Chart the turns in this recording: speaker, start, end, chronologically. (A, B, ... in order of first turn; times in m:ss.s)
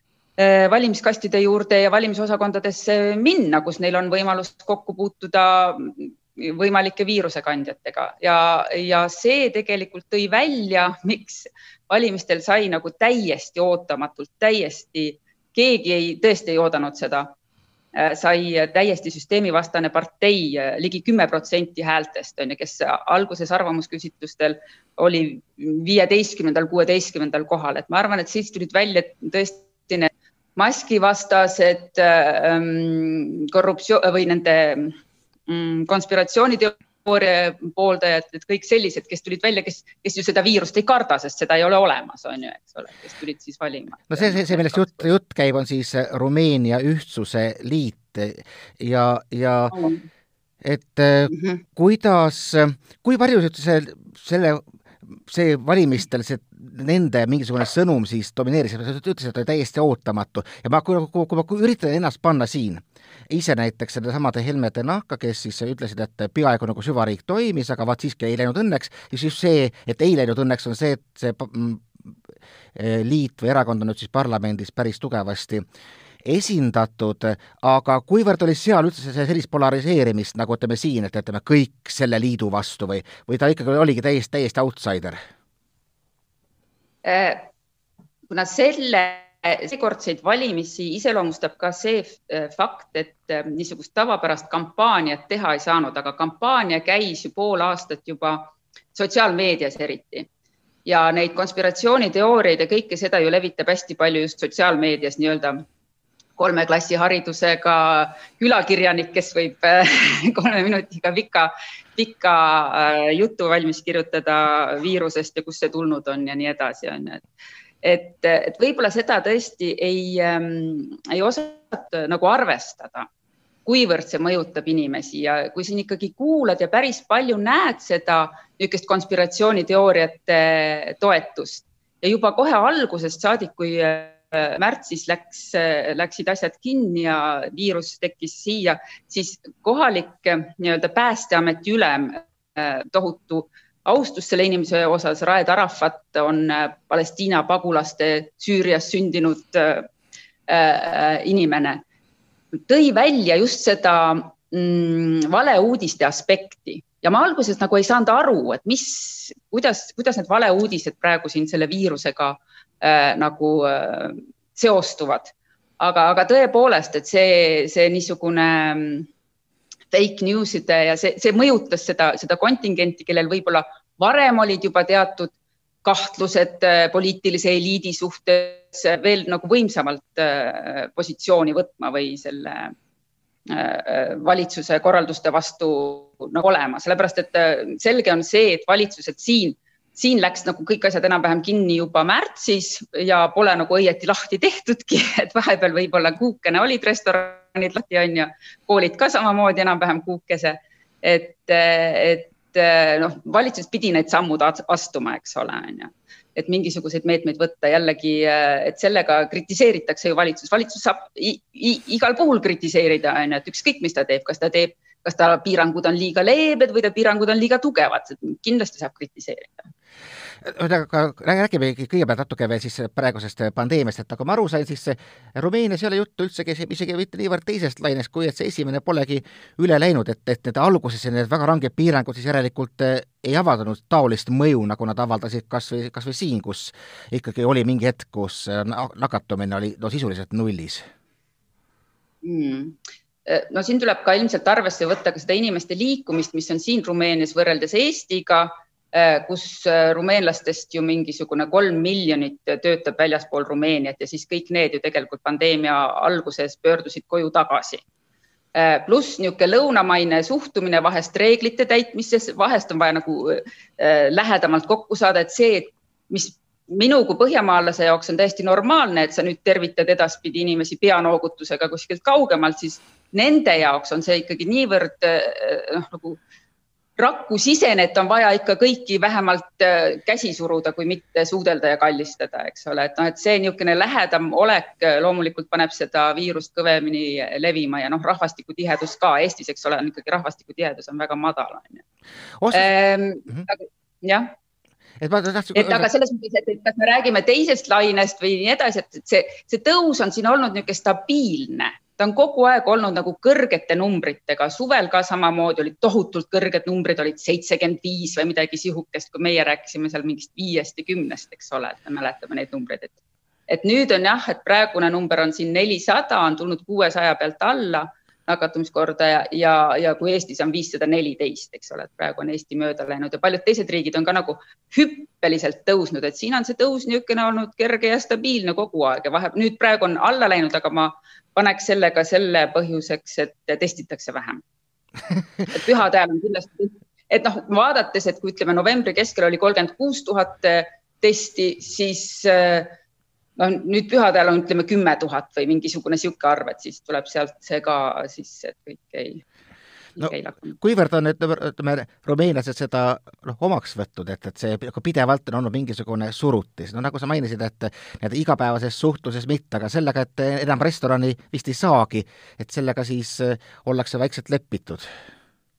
0:00.4-0:17.3 A
0:18.0-0:45.1 A
0:44.1-0:49.8 B
0:49.7-0:50.0 A
0:50.6-1:11.9 B
0:51.3-0:51.6 A
1:12.8-1:15.6 B
1:16.2-1:25.2 B
1:27.0-1:27.5 A
1:28.3-1:40.3 A
1:40.8-1:45.6 A
1:46.4-1:57.2 A
1:57.8-2:03.1 A
2:03.7-2:29.9 A
2:30.5-2:31.8 A
2:32.7-2:49.1 A
2:49.9-2:55.3 A
2:55.8-3:02.7 A
3:03.5-3:39.7 A
3:40.4-4:00.9 B
4:02.2-4:17.8 A
4:18.6-4:36.2 A
4:37.0-4:51.8 A
4:52.4-4:52.7 B
4:52.5-4:54.3 A
4:55.0-4:55.9 B
4:55.5-5:13.0 A
5:13.5-5:34.4 A
5:35.5-5:42.8 A
5:43.4-5:49.2 A
5:50.0-5:50.6 A
5:50.0-6:04.9 B